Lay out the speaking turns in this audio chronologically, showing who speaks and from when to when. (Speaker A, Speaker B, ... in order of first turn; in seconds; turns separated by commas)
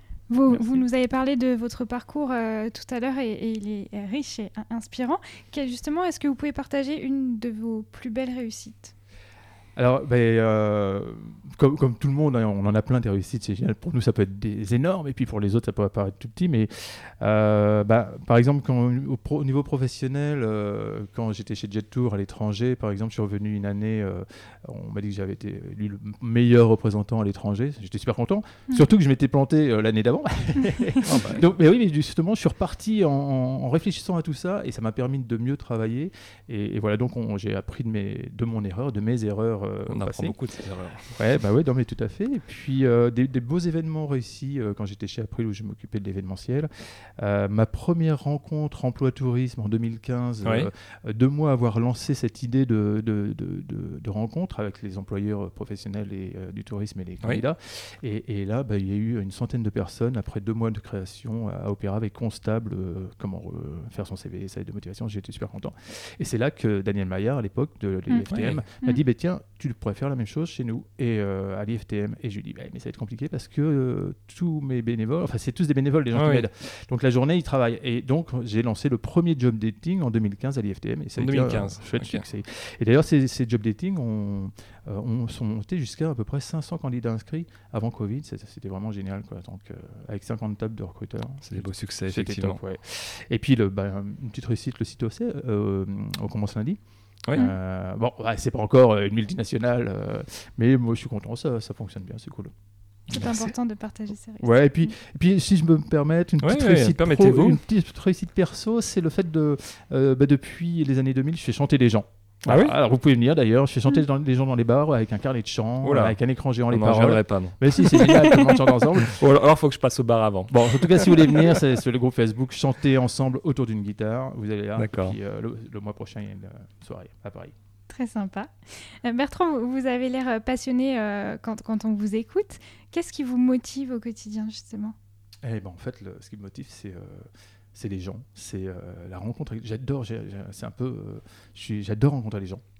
Speaker A: 0.3-8.9, Speaker B: 0.5-0.8, Speaker B: 9.8-40.4, Speaker C: 31.0-31.5, Speaker C: 39.9-41.2, Speaker B: 41.1-96.8, Speaker C: 50.4-50.7, Speaker C: 68.3-68.6, Speaker C: 76.1-76.5, Speaker C: 81.2-82.2, Speaker C: 91.4-92.6, Speaker B: 97.3-102.5, Speaker A: 103.1-104.9, Speaker B: 103.1-103.5, Speaker B: 104.4-119.2, Speaker C: 106.4-107.6, Speaker C: 112.5-112.8, Speaker C: 115.8-121.6, Speaker B: 120.5-127.5, Speaker C: 124.8-125.2, Speaker A: 127.9-134.9, Speaker B: 135.4-142.6